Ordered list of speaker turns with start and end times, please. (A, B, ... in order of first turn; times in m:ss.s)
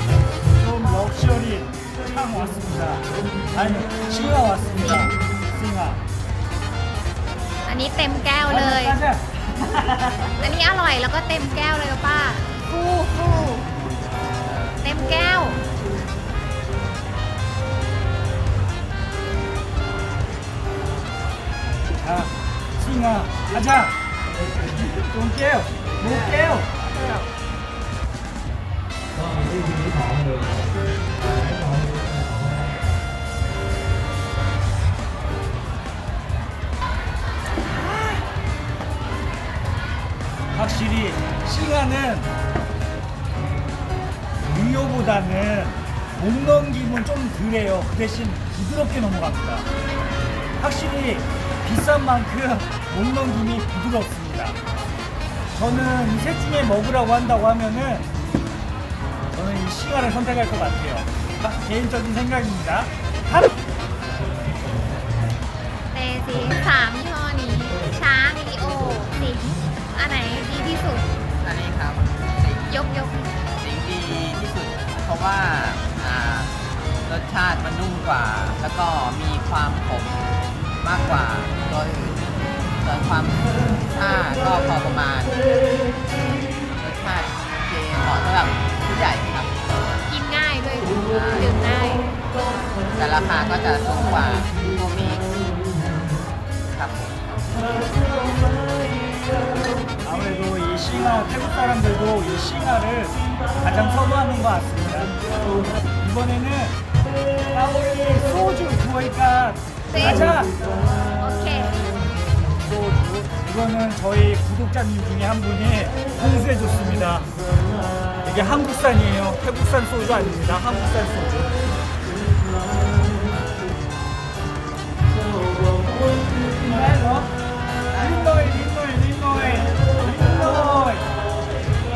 0:00.5-0:06.0 A
0:04.8-0:05.2 B
0:07.7-0:09.0 B
0:08.5-0:10.3 A
0:10.4-0:13.7 B
0:14.8-0:15.6 B
0:22.0-0:24.0 A
0:24.6-0:26.9 A
0:26.0-0:27.1 C
0:40.5-0:42.3 A
0:44.5-0:49.7 A
0:50.6-0:54.6 A
0:55.5-0:58.1 A
0:59.4-1:03.5 A
1:05.9-1:11.1 B
1:11.4-1:12.8 C
1:12.7-1:13.3 B
1:13.6-1:16.5 C
1:17.0-1:20.2 C
1:20.8-1:22.2 C
1:22.8-1:25.4 C
1:26.8-1:29.6 C
1:30.1-1:32.1 B
1:31.0-1:31.6 C
1:32.9-1:35.3 C
1:36.7-1:37.7 C
1:40.0-1:45.2 A
1:46.0-1:46.8 A
1:47.5-1:50.6 A
1:49.9-1:50.4 B
1:51.2-1:51.8 B
1:52.6-1:57.3 A
1:58.2-2:01.6 A
2:06.6-2:07.3 A
2:07.9-2:08.2 C
2:07.9-2:11.1 A